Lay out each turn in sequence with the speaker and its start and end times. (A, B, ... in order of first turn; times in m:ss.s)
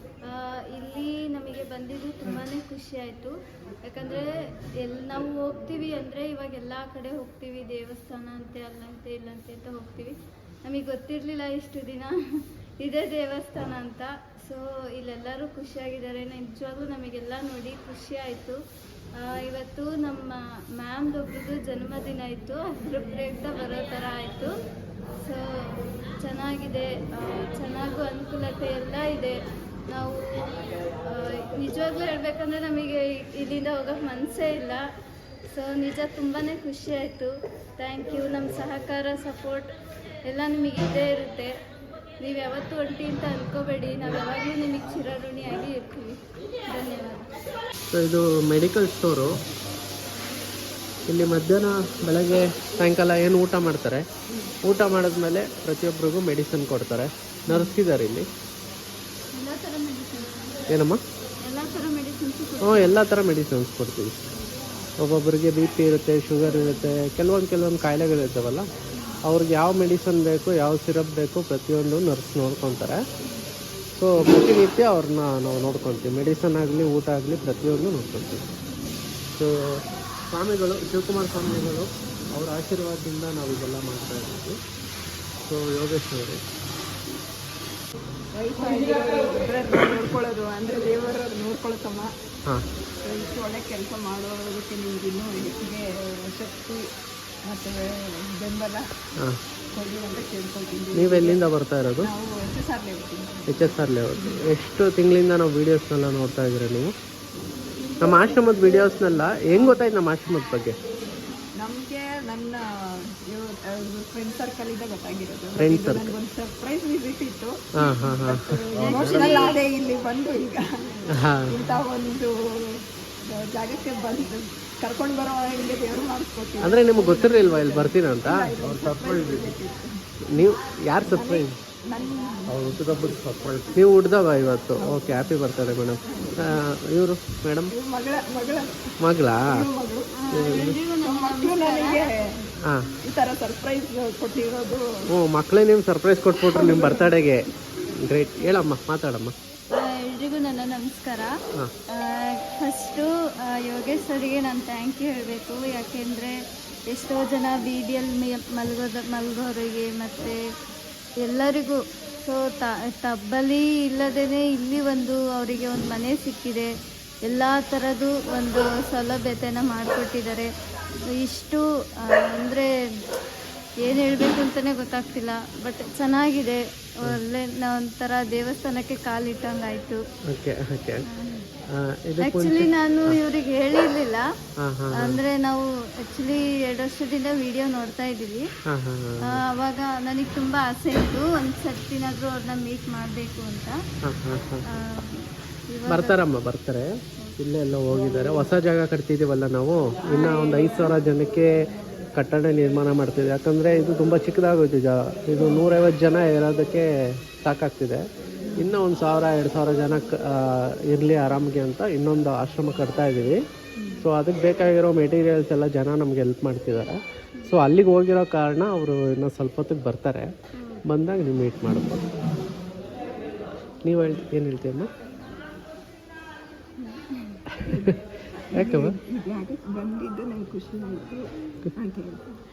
0:00.2-0:12.2 A
0:12.8-0:18.6 A
0:19.2-0:24.5 A
0:25.2-0:29.4 A
0:29.9-0:34.8 A
0:35.5-0:39.7 A
0:40.2-0:41.5 A
0:42.2-0:47.3 A
0:47.9-0:49.3 B
0:51.1-0:54.1 B
0:54.6-0:58.3 B
0:59.3-1:00.6 A
1:00.7-1:01.0 B
1:01.4-1:03.0 A
1:02.6-1:04.3 B
1:05.0-1:08.7 B
1:09.2-1:13.0 B
1:13.9-1:18.5 B
1:19.3-1:24.6 B
1:25.4-1:26.4 B
1:28.3-1:32.1 C
1:33.0-1:36.9 C
1:37.4-1:38.9 C
1:39.7-1:41.4 C
1:40.9-1:42.1 B
1:42.0-1:43.6 C
1:43.5-1:46.9 B
1:47.9-1:49.8 C
1:48.0-1:50.8 B
1:51.6-2:09.9 C
1:55.6-1:56.2 B
1:57.8-1:59.6 B
1:58.7-1:59.6 A
2:01.1-2:01.7 B
2:06.6-2:09.6 B
2:10.2-2:11.6 B
2:11.2-2:12.5 C
2:12.5-2:17.7 B
2:14.8-2:15.2 C
2:16.1-2:16.6 C
2:17.7-2:19.0 C
2:19.0-2:19.7 B
2:19.5-2:22.5 C
2:20.2-2:22.1 A
2:20.3-2:20.8 B
2:22.6-2:23.0 B
2:23.0-2:24.9 C
2:25.1-2:29.3 B
2:26.4-2:27.1 C
2:29.7-2:31.4 A
2:31.9-2:40.4 A
2:41.2-2:46.7 A
2:47.2-2:50.5 A
2:51.1-2:52.7 A
2:53.8-3:00.0 A
3:00.3-3:01.0 B
3:01.0-3:01.5 A
3:01.7-3:03.2 B
3:02.2-3:04.2 A
3:04.6-3:05.2 B
3:05.0-3:08.5 A
3:08.7-3:09.4 B
3:09.3-3:13.8 A
3:14.0-3:14.6 B
3:14.7-3:16.2 A
3:15.9-3:21.5 B
3:20.1-3:20.8 A
3:22.1-3:28.0 B
3:28.6-3:33.4 B
3:33.8-3:34.1 C
3:34.0-3:40.3 B
3:40.6-3:40.8 A
3:40.8-3:42.0 B
3:43.8-3:44.9 B
3:46.8-3:47.4 A
3:47.5-3:48.0 B
3:47.7-3:52.4 C
3:48.5-3:49.0 B